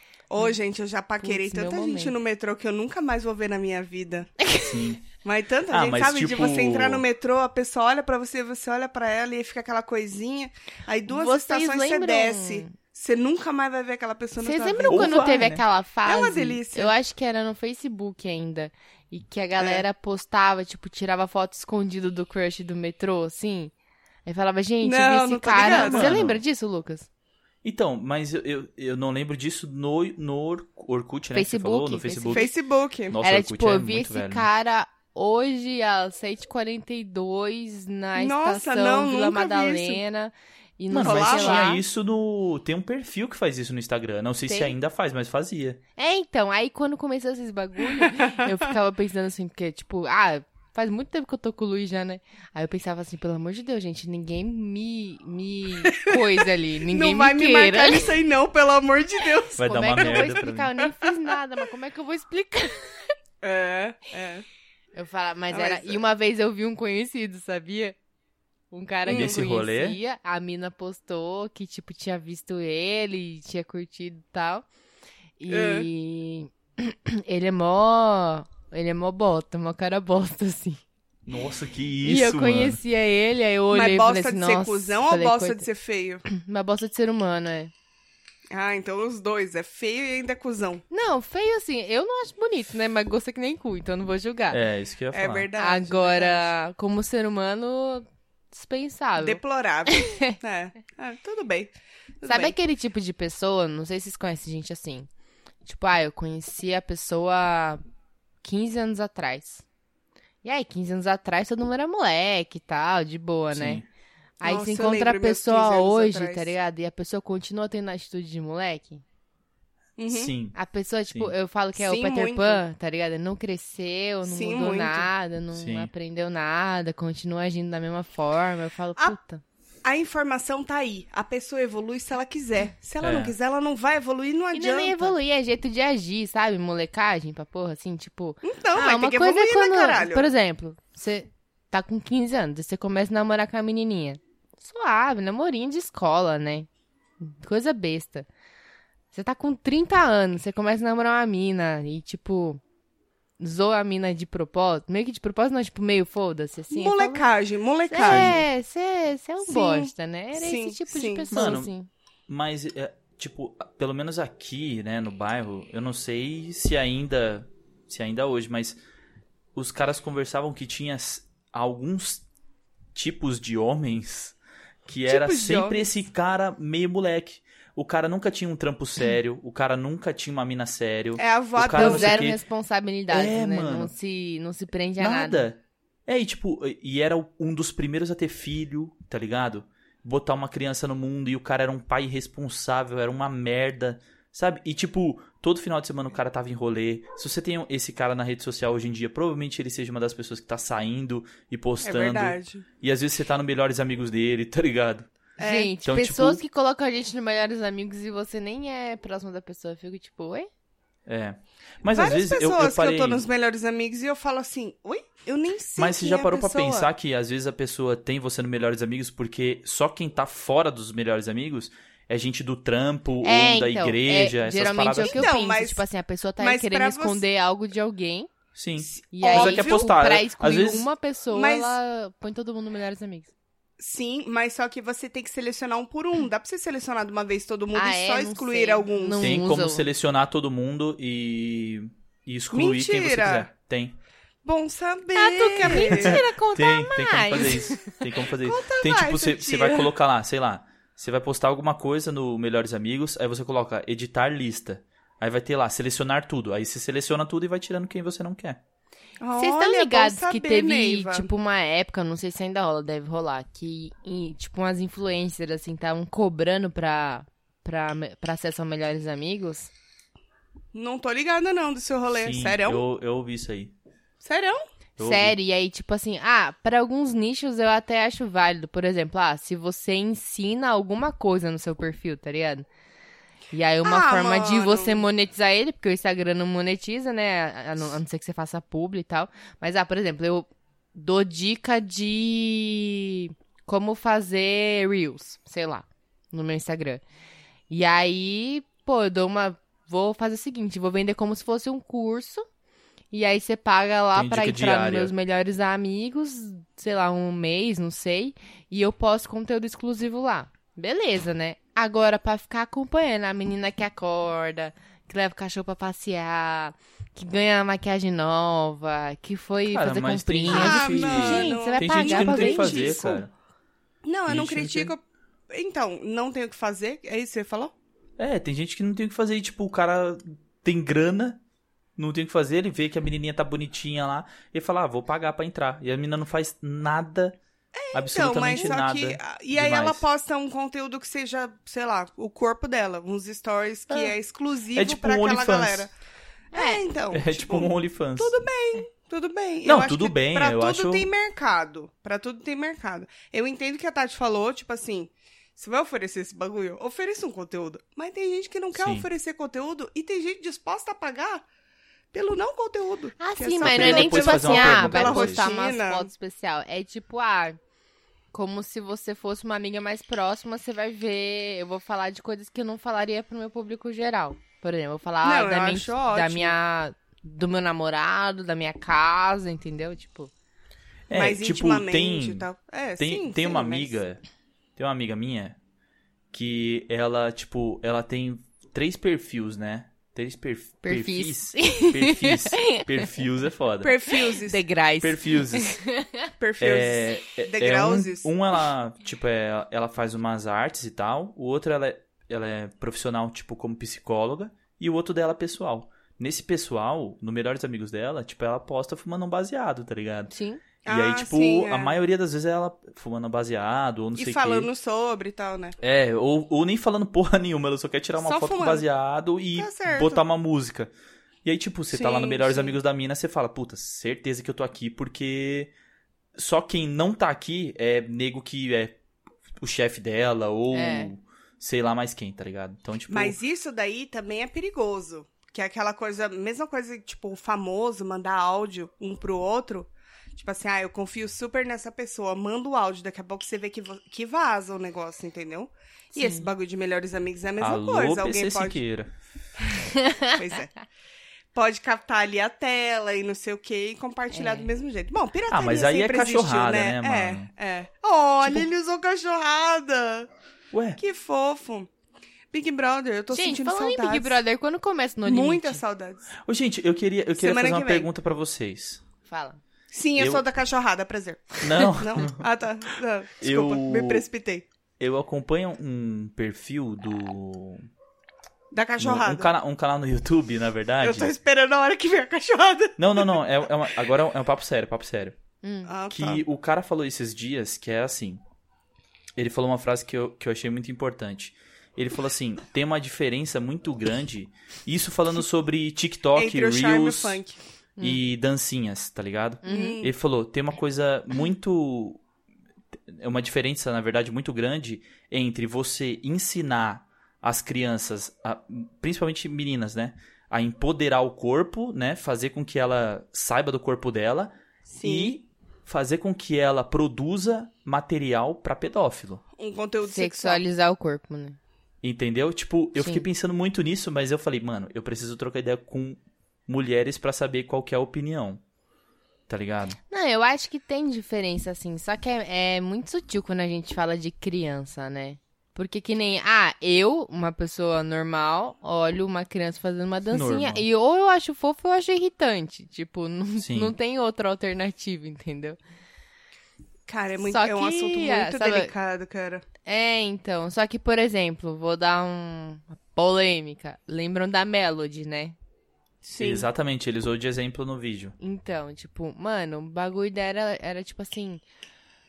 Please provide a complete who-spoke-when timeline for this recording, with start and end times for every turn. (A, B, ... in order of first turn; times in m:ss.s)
0:00.3-0:04.3 A
0:01.2-0:02.1 B
0:04.4-0:04.9 B
0:04.6-0:05.0 C
0:05.2-0:15.3 A
0:05.7-0:07.0 C
0:11.1-0:12.7 B
0:14.4-0:23.7 B
0:14.9-0:15.6 C
0:16.0-0:16.9 A
0:19.6-0:19.8 A
0:24.2-0:27.1 B
0:24.8-0:26.2 A
0:25.6-0:26.4 C
0:27.6-0:32.5 C
0:31.3-0:32.5 B
0:32.3-0:33.2 A
0:33.1-0:34.5 C
0:33.2-0:41.8 B
0:38.2-0:40.0 A
0:40.9-0:45.8 C
0:41.0-0:41.8 A
0:44.5-0:44.7 B
0:46.0-0:58.1 B
0:48.0-0:48.5 A
0:55.8-1:00.4 A
0:59.6-1:00.7 C
0:59.6-1:03.1 B
1:03.4-1:04.4 A
1:04.9-1:08.0 B
1:05.5-1:06.0 A
1:08.7-1:14.6 B
1:09.1-1:09.4 A
1:09.1-1:10.0 C
1:15.4-1:20.8 B
1:15.5-1:15.9 A
1:21.2-1:22.8 C
1:22.0-1:25.6 B
1:23.7-1:26.2 A
1:26.2-1:27.7 B
1:28.5-1:30.8 A
1:30.9-1:34.6 B
1:34.5-1:35.5 C
1:35.1-1:36.5 A
1:35.6-1:40.4 B
1:39.2-1:42.5 A
1:42.2-1:45.1 B
1:45.6-1:47.8 B
1:48.4-1:49.6 B
1:50.4-1:53.8 B
1:53.5-1:53.8 C
1:54.4-1:59.0 B
1:54.4-1:56.5 A
2:00.0-2:00.3 A
2:00.1-2:00.6 C
2:00.5-2:09.4 B
2:01.8-2:02.6 A
2:04.2-2:05.1 A
2:05.5-2:05.9 C
2:09.8-2:15.1 A
2:13.0-2:13.4 C
2:14.5-2:26.7 B
2:18.4-2:20.3 A
2:27.2-2:28.3 B
2:29.1-2:32.6 B
2:33.4-2:37.2 B
2:36.7-2:38.4 A
2:37.9-2:41.9 B
2:38.0-2:38.4 C
2:39.4-2:41.3 A
2:41.3-2:41.7 C
2:42.3-2:48.8 C
2:49.5-2:52.2 C
2:52.9-3:02.4 C
2:55.1-2:55.8 A
3:01.2-3:02.3 A
3:01.7-3:05.4 B
3:03.1-3:03.9 C
3:05.0-3:25.1 C
3:21.8-3:22.6 A
3:25.4-3:25.7 A
3:25.4-3:30.5 B
3:25.8-3:26.4 C
3:31.0-3:33.2 C
3:31.9-3:36.9 A
3:35.8-3:45.3 C
3:43.2-3:48.3 B
3:45.0-3:45.8 A
3:46.4-3:47.2 A
3:48.5-3:50.9 C
3:48.8-3:49.9 A
3:49.1-3:53.3 B
3:51.3-3:51.8 A
3:53.8-3:59.4 A
3:57.7-3:59.8 B
3:59.2-4:04.0 C
4:02.5-4:03.5 A
4:04.4-4:06.2 A
4:05.1-4:07.9 B
4:05.6-4:18.6 C
4:08.3-4:09.9 A
4:19.2-4:21.3 A
4:19.4-4:29.7 B
4:30.7-4:32.8 A
4:32.1-4:33.7 C
4:34.2-4:34.6 A
4:35.0-4:35.4 C
4:35.0-4:42.6 B
4:43.5-4:57.0 B
4:43.8-4:45.0 A
4:57.7-5:02.4 B
5:03.1-5:23.0 B
5:04.1-5:05.1 C
5:19.7-5:23.3 C
5:20.5-5:23.2 A
5:24.0-5:27.7 A
5:24.3-5:24.9 C
5:28.2-5:31.4 C
5:32.0-5:37.4 C
5:37.7-5:45.9 A
5:37.9-5:40.0 C
5:44.7-5:45.9 C
5:46.5-6:01.4 A
5:46.5-5:46.8 B
5:47.1-5:48.3 C
5:49.6-5:51.1 C
5:58.7-5:59.1 C
6:02.1-6:06.1 A
6:03.2-6:07.6 B
6:03.6-6:05.5 C
6:08.3-6:20.3 B
6:15.2-6:16.6 A
6:21.1-6:22.5 C
6:21.1-6:24.0 A
6:23.0-6:24.2 C
6:24.8-6:25.6 C
6:26.3-6:33.9 C
6:30.8-6:33.0 B
6:33.8-6:34.6 A
6:34.4-6:36.2 B
6:35.0-6:35.8 C
6:36.4-6:38.3 A
6:36.6-6:50.3 C
6:50.3-6:50.6 B
6:50.8-6:52.0 A
6:50.8-6:54.7 C
6:54.1-6:55.8 A
6:55.8-7:00.9 C
6:58.2-6:58.8 A
6:59.5-7:00.2 A
7:01.4-7:05.7 C
7:01.9-7:02.8 A
7:06.3-7:09.0 C
7:09.6-7:13.4 C
7:10.7-7:11.1 B
7:13.1-7:28.8 A
7:26.1-7:26.5 B
7:27.6-7:29.1 C
7:29.9-7:30.3 B
7:30.2-7:30.7 A
7:31.5-7:40.3 A
7:34.3-7:34.7 B
7:35.5-7:37.5 C
7:40.7-7:41.0 C
7:41.0-7:41.9 A
7:42.5-7:44.4 A
7:43.3-7:45.8 B
7:45.2-7:46.3 A
7:46.5-7:49.0 C
7:47.4-7:48.1 A
7:49.3-7:49.6 B
7:49.9-7:54.6 A
7:50.2-7:50.4 C
7:51.6-7:52.4 C
7:53.4-7:54.2 C
7:55.0-7:57.9 C
7:58.7-7:59.5 A
7:59.0-8:01.3 C
8:01.0-8:03.4 A
8:03.0-8:05.4 C
8:05.6-8:05.9 B
8:05.9-8:06.4 A
8:06.1-8:08.4 C
8:09.4-8:17.4 C
8:16.3-8:17.6 A
8:18.0-8:22.2 C
8:19.6-8:20.0 B
8:19.6-8:20.1 A
8:23.1-8:39.4 C
8:34.9-8:35.4 A
8:39.6-8:40.6 A
8:40.0-8:41.6 B
8:42.0-8:48.6 C
8:43.0-8:43.2 B
8:49.5-8:50.0 C
8:50.1-9:05.8 B
9:00.3-9:00.8 C
9:03.6-9:03.9 C
9:07.1-9:09.6 A
9:07.4-9:08.9 B
9:09.8-9:15.6 B
9:16.2-9:16.7 A
9:16.4-9:18.4 C
9:18.4-9:21.6 B